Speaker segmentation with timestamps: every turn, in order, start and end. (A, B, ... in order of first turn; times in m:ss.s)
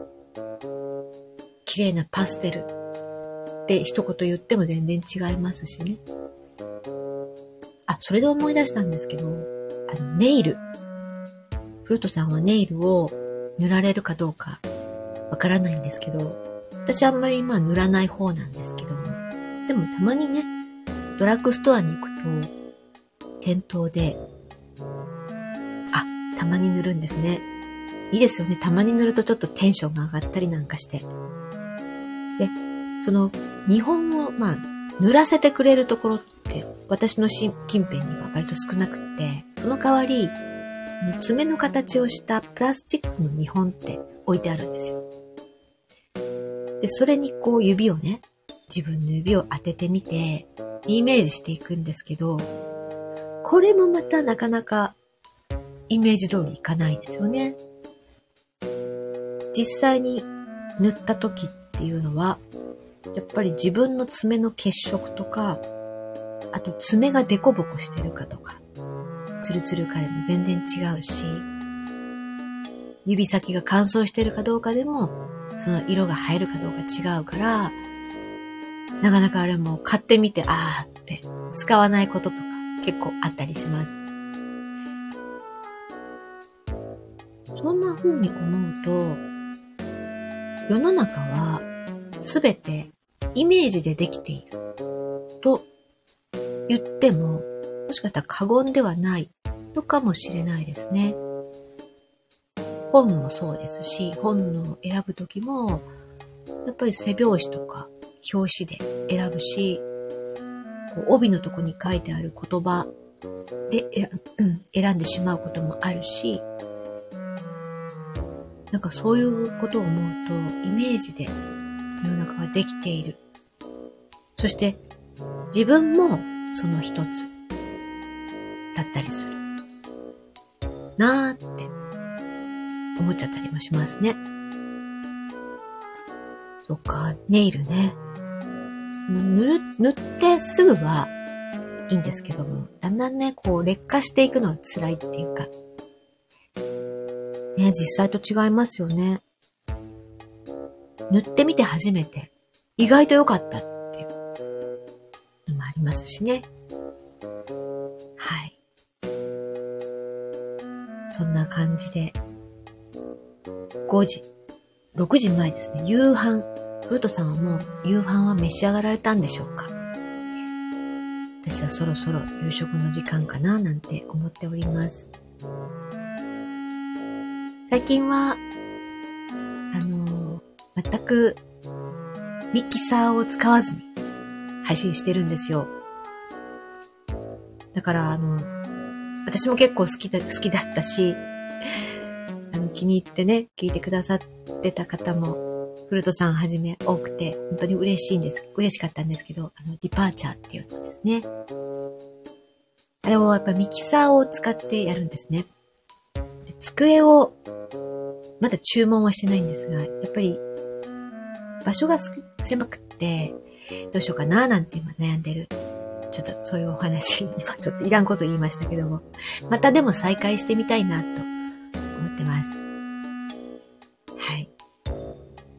0:01.6-0:02.7 A
0:03.7-0:06.0 A
0:07.9-0:10.6 A
0:11.8-0:14.6 A
0:15.3-0:20.5 A
0:21.2-0:22.5 A
0:23.4-0:24.2 A
0:25.9-0:27.5 A
0:28.1-0:31.1 A
0:32.4-0:40.4 A
0:41.0-0:45.0 A
0:46.8-0:52.5 A
0:53.4-0:55.0 A
0:55.9-0:57.6 A
0:59.5-1:02.4 A
1:03.1-1:05.6 A
1:06.5-1:08.6 A
1:09.4-1:11.5 A
1:13.0-1:17.8 A
1:19.0-1:23.9 A
1:27.6-1:29.2 A
1:30.7-1:31.6 A
1:32.2-1:34.5 A
1:35.4-1:35.7 A
1:36.7-1:41.2 A
1:42.9-1:45.9 A
1:46.6-1:49.8 A
1:50.9-1:52.9 A
1:53.7-1:56.4 A
1:58.7-2:01.4 A
2:02.0-2:03.2 A
2:04.4-2:04.8 A
2:05.5-2:07.3 A
2:08.7-2:09.4 A
2:11.0-2:11.7 A
2:13.0-2:14.2 A
2:16.6-2:18.0 A
2:19.1-2:21.1 A
2:21.9-2:25.5 A
2:27.6-2:29.2 A
2:31.1-2:34.1 A
2:35.5-2:36.5 A
2:38.2-2:38.6 A
2:41.1-2:42.2 A
2:43.9-2:44.3 A
2:44.9-2:49.7 A
2:51.4-2:55.1 A
2:57.7-2:58.4 A
2:59.7-3:01.4 A
3:02.5-3:03.9 A
3:04.6-3:05.7 A
3:07.7-3:08.5 A
3:09.2-3:11.2 A
3:12.5-3:21.3 A
3:23.0-3:25.5 A
3:26.4-3:27.4 A
3:28.4-3:30.4 A
3:31.6-3:33.4 A
3:33.9-3:35.5 A
3:36.1-3:41.3 A
3:42.0-3:42.6 A
3:44.2-3:44.5 A